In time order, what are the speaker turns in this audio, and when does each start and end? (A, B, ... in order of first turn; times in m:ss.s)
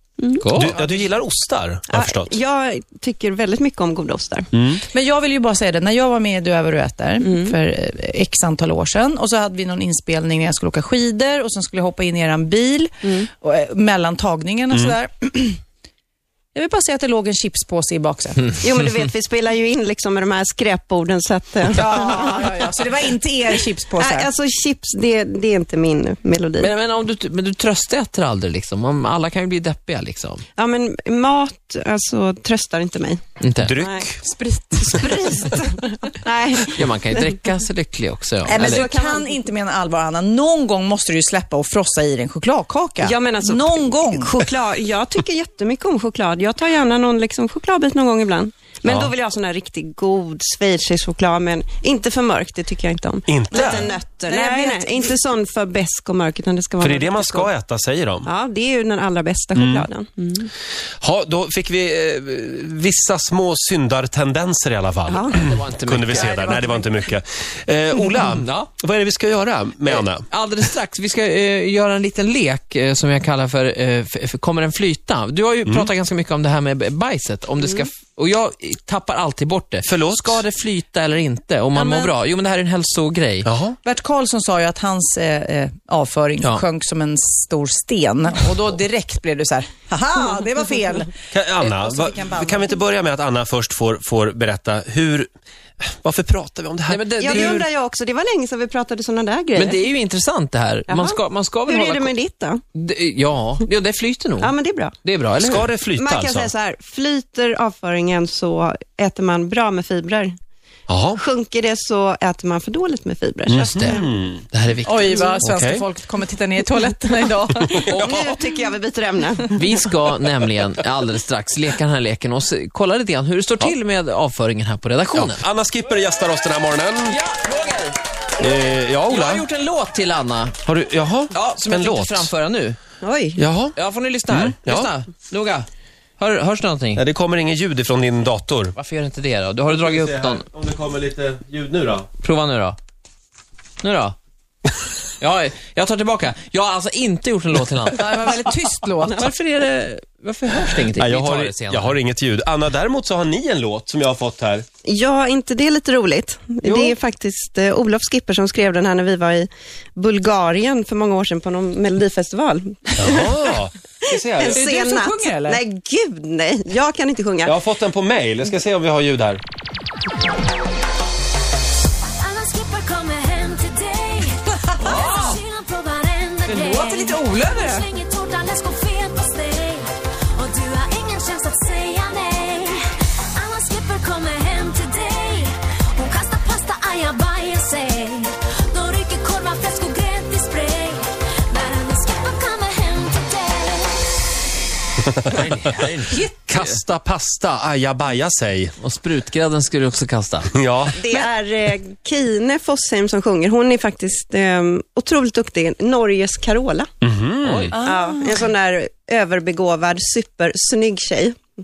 0:00.2-0:00.5 A
0:00.4-0:00.8 B
0:00.5-0:02.4 C
0:01.9-0:04.5 A
0:04.5-0:04.8 C
0:04.9-0:15.6 D
0:07.2-0:07.6 A
0:13.0-0:13.3 A
0:16.6-0:18.6 D
0:18.6-0:22.6 A
0:21.8-0:24.3 D
0:24.0-0:26.7 A
0:26.6-0:30.4 B
0:30.6-0:33.2 A
0:33.4-0:33.7 B
0:33.6-0:34.2 C
0:33.8-0:37.2 A
0:36.7-0:38.9 B
0:38.5-0:44.4 D
0:38.5-0:39.4 A
0:43.0-0:57.5 A
0:48.9-0:49.1 C
0:53.3-0:53.9 C
0:53.5-0:55.1 D
0:56.8-0:58.3 C
0:58.2-1:00.5 A
0:59.6-0:59.9 C
1:01.0-1:10.3 C
1:05.1-1:05.4 A
1:05.3-1:06.5 B
1:06.2-1:06.9 D
1:08.4-1:08.7 B
1:09.9-1:23.5 B
1:19.9-1:20.4 C
1:21.7-1:22.1 D
1:23.4-1:23.8 C
1:23.8-1:32.8 D
1:31.3-1:35.3 C
1:35.8-1:37.6 C
1:36.9-1:37.6 B
1:37.2-1:39.8 A
1:39.6-1:42.1 B
1:40.9-1:42.6 A
1:42.8-1:44.5 B
1:44.4-1:45.0 A
1:45.0-1:45.7 B
1:45.4-1:46.5 C
1:45.9-1:50.3 A
1:50.9-1:51.2 C
1:51.2-1:54.1 A
1:53.5-1:54.4 C
1:54.5-1:55.3 B
1:54.8-1:57.9 D
1:55.4-1:55.8 C
1:57.9-1:59.5 A
1:57.9-1:58.3 B
1:58.0-1:58.3 C
1:59.6-2:05.4 B
2:05.1-2:07.2 C
2:07.1-2:08.0 B
2:08.4-2:09.5 C
2:09.1-2:10.6 B
2:10.6-2:12.3 C
2:11.3-2:12.8 B
2:13.0-2:13.4 A
2:13.4-2:13.8 C
2:13.8-2:15.7 B
2:14.3-2:14.9 C
2:16.2-2:17.0 B
2:17.0-2:18.7 C
2:18.8-2:20.4 B
2:19.7-2:22.1 C
2:22.2-2:22.8 B
2:23.8-2:24.2 B
2:25.2-2:28.3 B
2:27.9-2:29.3 D
2:29.2-2:32.0 B
2:30.9-2:34.7 C
2:34.8-2:43.5 A
2:36.6-2:37.0 C
2:43.0-2:44.6 C
2:44.2-2:47.5 A
2:44.4-2:45.6 D
2:47.5-2:49.4 C
2:52.2-3:14.2 E
2:54.8-2:55.4 D
2:56.5-2:57.9 D
3:15.3-3:16.8 B
3:16.3-3:18.7 C
3:18.8-3:20.5 B
3:20.5-3:21.0 C
3:21.0-3:26.9 A
3:27.0-3:27.7 C
3:27.4-3:27.7 B
3:27.7-3:28.4 D
3:27.8-3:31.4 A